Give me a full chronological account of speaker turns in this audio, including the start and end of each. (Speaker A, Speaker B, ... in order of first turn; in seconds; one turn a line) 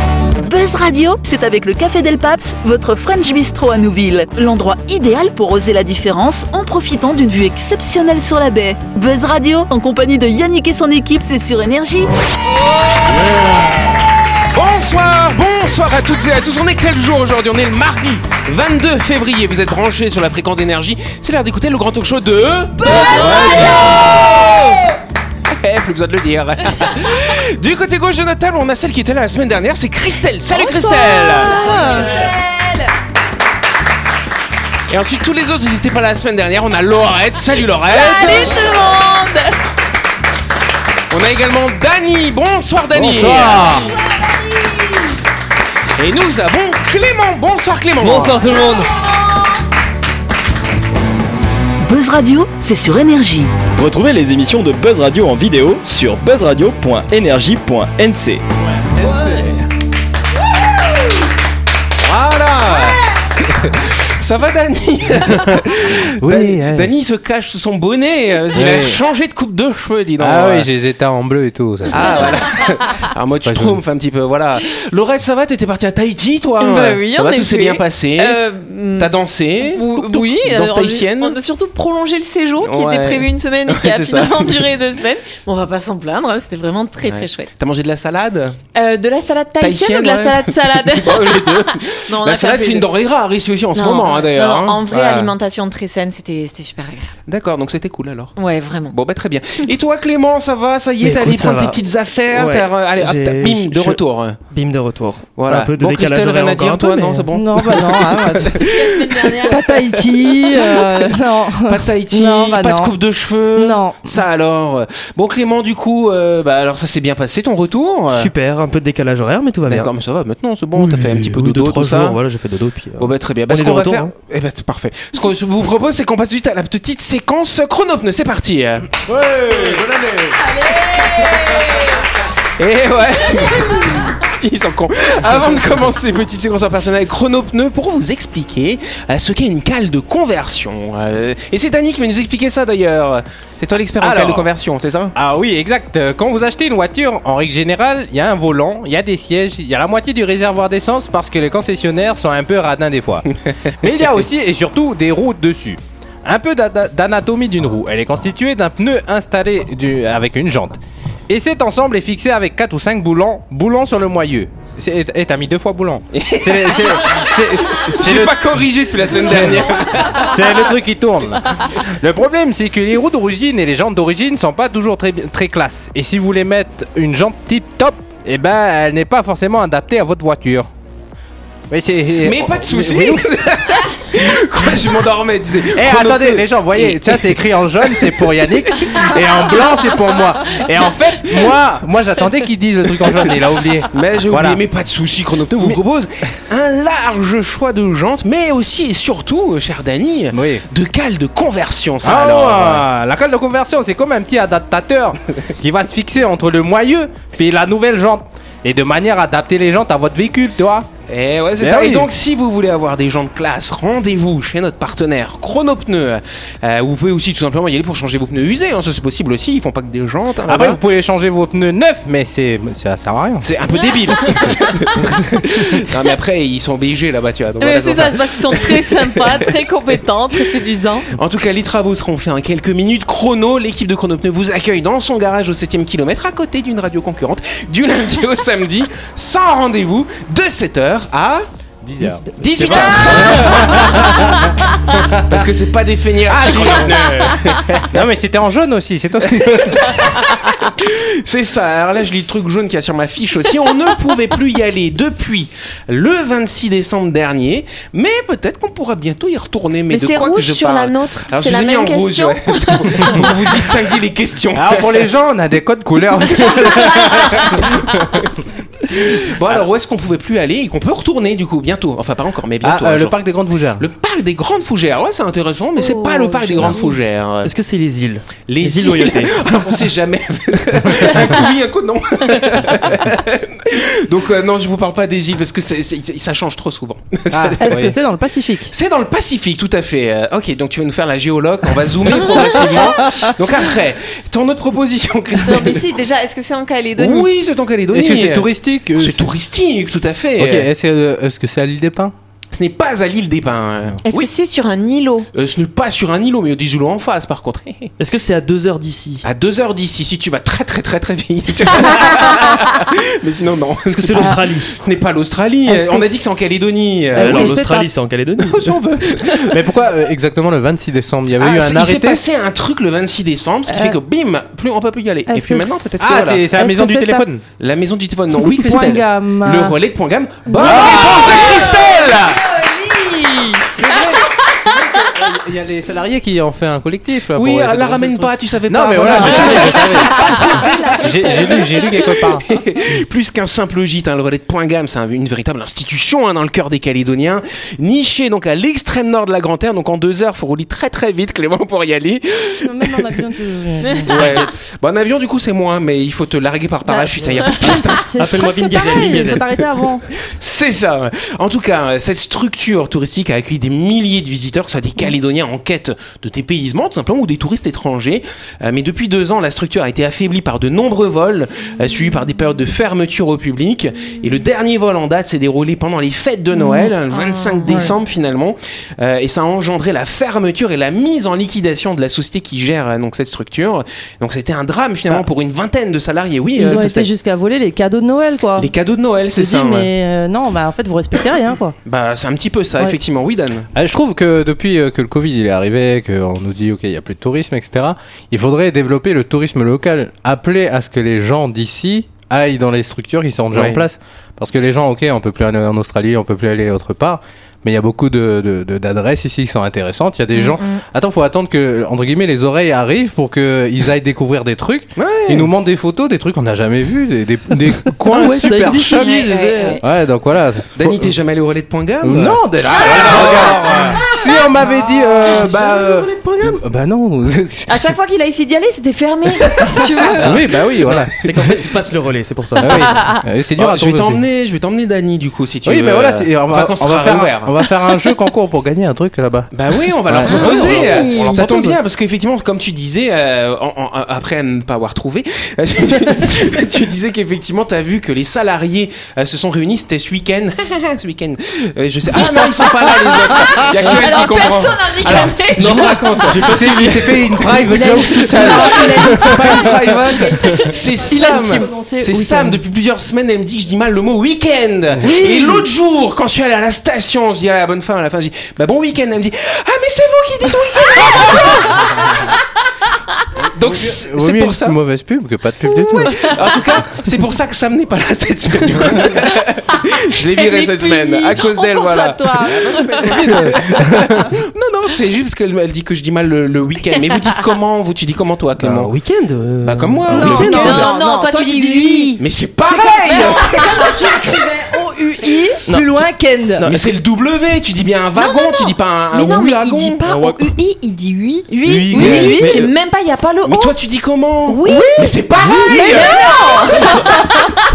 Speaker A: 0.4-12.1
Speaker B: 14.5-24.7
Speaker C: 22.9-24.0
Speaker A: 23.0-23.8
Speaker B: 25.5-31.6
Speaker C: 30.5-32.3
Speaker B: 34.9-38.6
Speaker C: 37.8-39.5
Speaker A: 38.7-39.1
Speaker B: 41.1-43.7
Speaker D: 43.0-43.4
Speaker E: 43.0-43.9
Speaker C: 43.8-45.0
Speaker B: 46.0-48.5
Speaker E: 48.0-49.0
Speaker A: 51.8-53.6
Speaker F: 53.7-58.4
Speaker B: 58.9-59.6
Speaker B: 62.0-70.7
Speaker D: 65.4-66.9
Speaker D: 68.5-69.0
Speaker D: 70.2-72.3
Speaker B: 71.9-78.4
Speaker D: 73.4-73.8
Speaker C: 76.6-87.5
Speaker B: 79.0-81.4
Speaker B: 82.6-84.6
Speaker B: 87.1-88.6
Speaker C: 88.8-92.9
Speaker B: 89.6-95.3
Speaker C: 93.7-97.1
Speaker B: 97.3-98.3
Speaker C: 98.4-99.0
Speaker B: 98.9-104.4
Speaker E: 101.0-107.3
Speaker B: 105.4-111.1
Speaker G: 107.3-108.7
Speaker C: 108.5-109.6
Speaker G: 109.5-113.0
Speaker B: 111.7-118.3
Speaker G: 113.5-114.1
Speaker E: 118.1-119.9
Speaker B: 119.7-122.2
Speaker E: 120.8-124.1
Speaker B: 123.0-130.5
Speaker D: 129.1-129.9
Speaker C: 130.6-131.9
Speaker B: 132.6-145.2
Speaker D: 144.0-144.5
Speaker D: 145.2-153.3
Speaker D: 153.8-168.5
Speaker B: 166.1-170.5
Speaker D: 169.2-180.7
Speaker D: 181.7-183.5
Speaker B: 182.2-188.2
Speaker D: 185.7-194.6
Speaker B: 188.7-189.2
Speaker B: 193.9-202.8
Speaker D: 200.3-200.6
Speaker D: 202.0-210.9
Speaker B: 211.1-220.8
Speaker D: 211.6-212.1
Speaker D: 220.4-223.5
Speaker B: 223.4-229.4
Speaker C: 227.6-231.1
Speaker B: 231.1-241.4
Speaker D: 241.8-245.4
Speaker B: 242.0-244.4
Speaker B: 245.2-247.9
Speaker D: 246.3-250.3
Speaker B: 249.4-265.1
Speaker C: 259.9-263.3
Speaker D: 264.5-268.3
Speaker B: 266.8-267.6
Speaker B: 268.9-273.2
Speaker D: 272.6-273.9
Speaker B: 273.8-277.5
Speaker C: 275.8-277.0
Speaker E: 277.4-279.4
Speaker B: 278.5-287.9
Speaker D: 287.3-288.0
Speaker G: 287.6-288.7
Speaker B: 288.7-295.9
Speaker G: 292.4-293.3
Speaker C: 295.4-297.3
Speaker B: 297.0-300.7
Speaker D: 297.9-299.3
Speaker D: 300.4-302.1
Speaker B: 302.5-304.3
Speaker C: 304.1-305.3
Speaker B: 305.3-307.9
Speaker E: 308.0-309.2
Speaker B: 309.2-317.6
Speaker E: 313.9-314.8
Speaker G: 315.7-316.2
Speaker G: 317.1-317.9
Speaker E: 317.1-318.8
Speaker B: 318.4-319.6
Speaker D: 319.5-322.2
Speaker B: 321.4-326.5
Speaker G: 323.7-324.0
Speaker G: 325.3-325.9
Speaker D: 326.0-327.4
Speaker G: 326.5-327.3
Speaker B: 327.6-332.4
Speaker G: 328.4-329.8
Speaker C: 330.5-334.1
Speaker D: 330.6-332.2
Speaker D: 333.7-342.5
Speaker B: 337.4-341.6
Speaker C: 339.9-341.9
Speaker B: 342.2-353.3
Speaker G: 352.6-354.5
Speaker B: 354.1-358.1
Speaker G: 356.9-360.1
Speaker E: 357.4-359.6
Speaker B: 360.1-387.1
Speaker C: 376.8-378.0
Speaker G: 386.6-388.7
Speaker B: 388.6-389.9
Speaker G: 389.3-391.8
Speaker B: 391.9-393.7
Speaker D: 393.7-419.2
Speaker B: 403.5-403.8
Speaker C: 410.4-410.8
Speaker B: 415.0-415.5
Speaker E: 418.1-419.8
Speaker C: 419.0-419.8
Speaker D: 419.8-421.1
Speaker B: 420.8-424.0
Speaker D: 422.0-427.8
Speaker B: 425.3-425.7
Speaker C: 427.7-430.5
Speaker D: 430.2-431.2
Speaker E: 430.9-433.0
Speaker D: 432.6-434.2
Speaker B: 433.6-437.7
Speaker D: 435.6-439.5
Speaker B: 439.5-457.1
Speaker D: 440.1-441.8
Speaker C: 440.3-441.5
Speaker E: 440.5-441.0
Speaker C: 453.8-456.0
Speaker E: 455.7-456.8
Speaker D: 456.3-459.7
Speaker G: 457.6-462.6
Speaker B: 458.1-472.3
Speaker G: 465.0-465.7
Speaker B: 473.5-474.8
Speaker D: 473.6-476.4
Speaker B: 476.0-488.9
Speaker C: 480.3-483.7
Speaker D: 483.1-484.2
Speaker E: 488.6-490.8
Speaker B: 489.6-490.9
Speaker G: 490.1-496.7
Speaker C: 490.4-494.4
Speaker B: 492.2-494.2
Speaker E: 495.7-496.1
Speaker E: 496.6-496.9
Speaker B: 496.6-500.1
Speaker C: 498.1-503.8
Speaker E: 500.1-500.5
Speaker E: 501.7-502.3
Speaker G: 501.9-502.6
Speaker B: 501.9-502.7
Speaker B: 503.4-507.2
Speaker C: 504.5-507.5
Speaker G: 504.7-506.7